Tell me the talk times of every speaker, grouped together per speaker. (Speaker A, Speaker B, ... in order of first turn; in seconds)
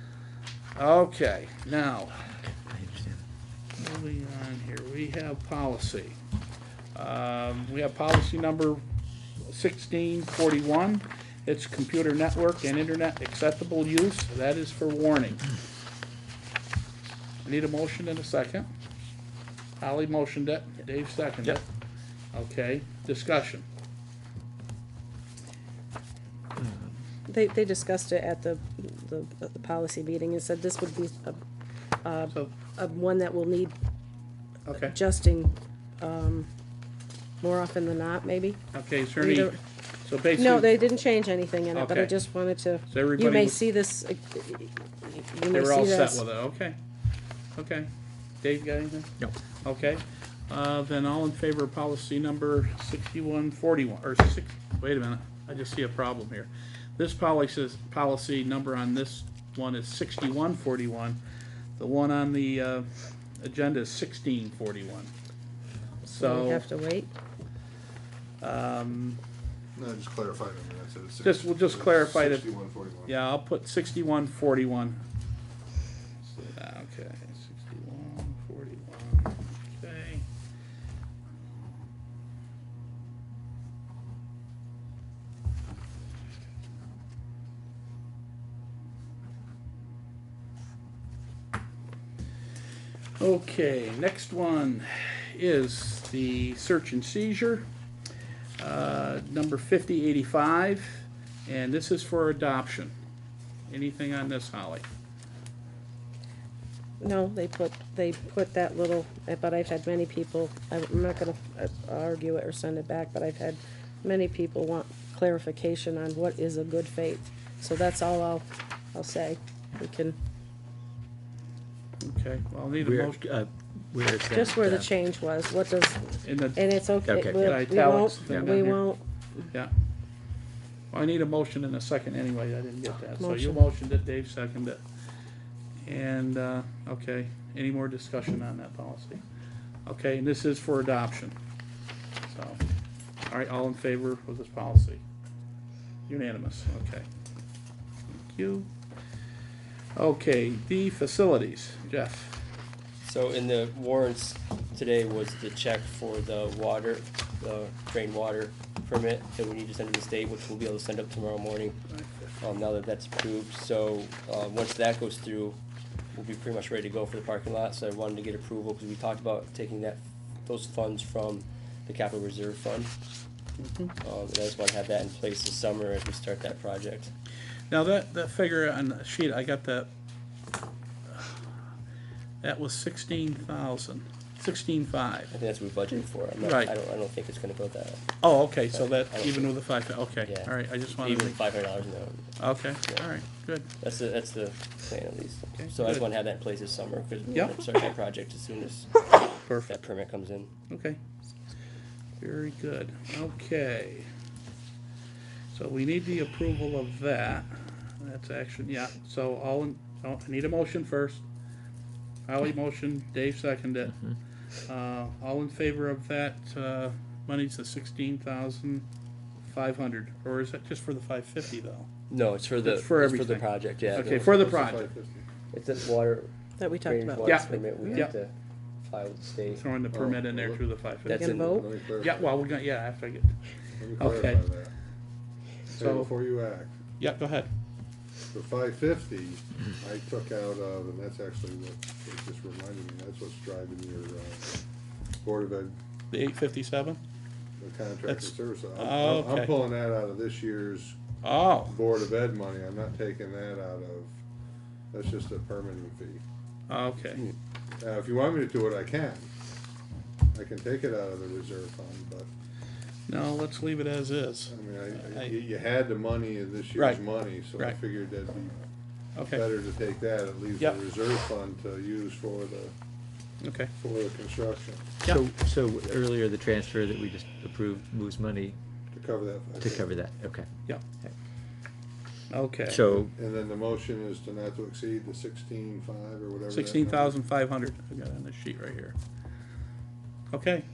Speaker A: 0.8-2.2, 3.8-6.2, 7.0-8.8, 9.5-15.4, 17.4-18.7, 19.8-21.6, 22.3-23.6, 34.7-35.0, 38.7-40.7, 41.7-42.1, 42.9-43.6, 45.5-46.8, 47.5-47.9, 48.4-61.2, 61.8-65.1, 66.1-66.7, 68.4-69.2, 71.2-72.5, 73.1-75.0, 76.2-80.2, 93.2-97.7, 98.6-102.9, 103.7-104.8, 122.0-123.2, 126.2-128.9, 130.9-134.8, 135.8-139.2, 139.8-141.3, 142.3-142.6, 143.3-145.0, 146.1-147.1, 148.1-148.7, 149.9-152.4, 173.6-173.9, 177.7-179.9, 181.1-181.4, 182.4-185.3, 186.4-186.7, 188.2-191.4, 192.4-193.7, 195.6-196.1, 197.3-197.6, 199.4-199.7, 200.7-201.0, 202.2-204.1, 205.5-211.2, 212.3-214.0, 214.7-218.9, 219.4-221.9, 222.6-224.9, 227.2-228.2, 229.5-231.4, 231.9-233.4, 234.0-234.4, 235.8-236.1, 237.0-237.5, 246.1-247.0, 248.1-249.6, 251.2-251.7, 256.7-257.3, 263.1-265.3, 266.8-267.0, 269.2-269.4, 273.4-273.7, 282.3-282.8, 286.5-289.0, 290.3-290.6
Speaker B: 2.7-3.2, 26.6-26.9, 122.8-124.9, 127.1-127.6, 128.3-128.6, 275.0-278.6, 279.6-280.5, 282.7-283.1
Speaker C: 27.3-31.4, 32.0-33.7, 34.8-36.5, 37.4-38.6, 39.2-39.6, 40.4-46.2, 66.1-67.1, 107.0-120.2, 124.3-129.4, 133.2-133.6, 226.6-228.1, 231.1-231.7
Speaker D: 69.8-73.2, 224.0-225.2, 229.9-230.6, 231.4-232.4, 233.8-234.7, 235.8-236.8, 238.3-244.6, 245.2-245.8, 247.6-251.0, 251.7-254.2, 254.9-256.2, 257.8-259.3, 260.3-262.3, 264.5-268.6, 269.2-272.7, 273.8-274.9, 278.9-279.9, 283.0-287.2
Speaker E: 153.0-161.8, 162.4-165.6, 166.1-172.9, 174.0-177.1, 185.3-193.1, 193.8-200.5, 222.1-224.4, 225.5-229.7, 231.1-231.6